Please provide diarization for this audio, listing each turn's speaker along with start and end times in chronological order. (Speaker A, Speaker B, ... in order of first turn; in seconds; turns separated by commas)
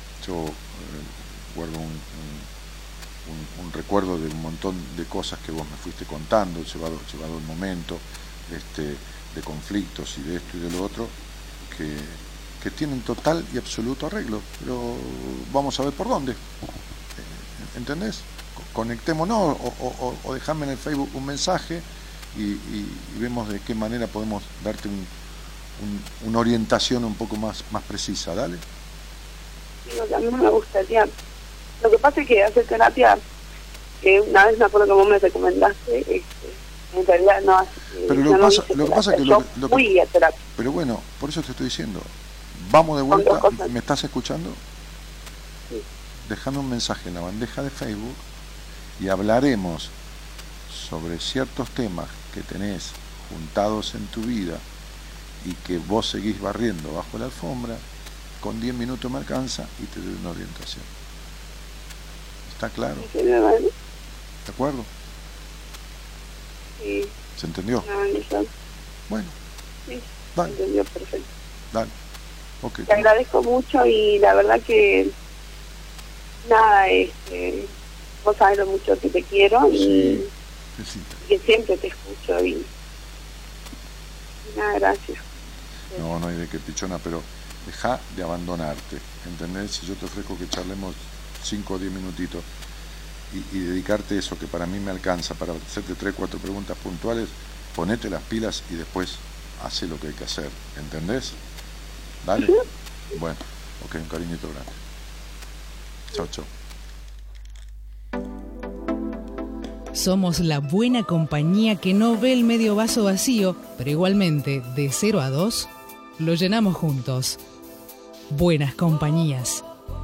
Speaker A: 0.2-2.5, Speaker A: 3.2-11.2, Speaker A: 11.7-16.4, Speaker A: 17.2-25.1, Speaker A: 25.8-28.6, Speaker B: 29.9-31.1, Speaker B: 31.8-33.2, Speaker B: 34.0-40.4, Speaker A: 38.1-39.8, Speaker A: 40.5-44.6, Speaker B: 43.1-43.7, Speaker A: 46.2-48.2, Speaker A: 49.0-49.9, Speaker A: 50.7-54.6, Speaker A: 55.4-57.8, Speaker A: 58.4-60.9, Speaker A: 62.5-63.1, Speaker B: 63.0-63.7, Speaker A: 64.5-64.9, Speaker B: 66.8-67.1, Speaker A: 67.4-67.8, Speaker B: 67.8-68.5, Speaker A: 69.1-69.3, Speaker B: 69.9-71.3, Speaker A: 72.6-73.0, Speaker B: 72.9-75.1, Speaker B: 76.4-77.7, Speaker B: 78.2-80.3, Speaker A: 79.7-80.2, Speaker A: 80.8-81.2, Speaker B: 81.2-82.7, Speaker B: 84.4-85.2, Speaker A: 85.9-92.5, Speaker A: 93.3-101.4, Speaker A: 102.2-102.6, Speaker A: 103.1-104.8, Speaker A: 106.1-106.5, Speaker C: 109.9-117.4, Speaker C: 118.3-119.6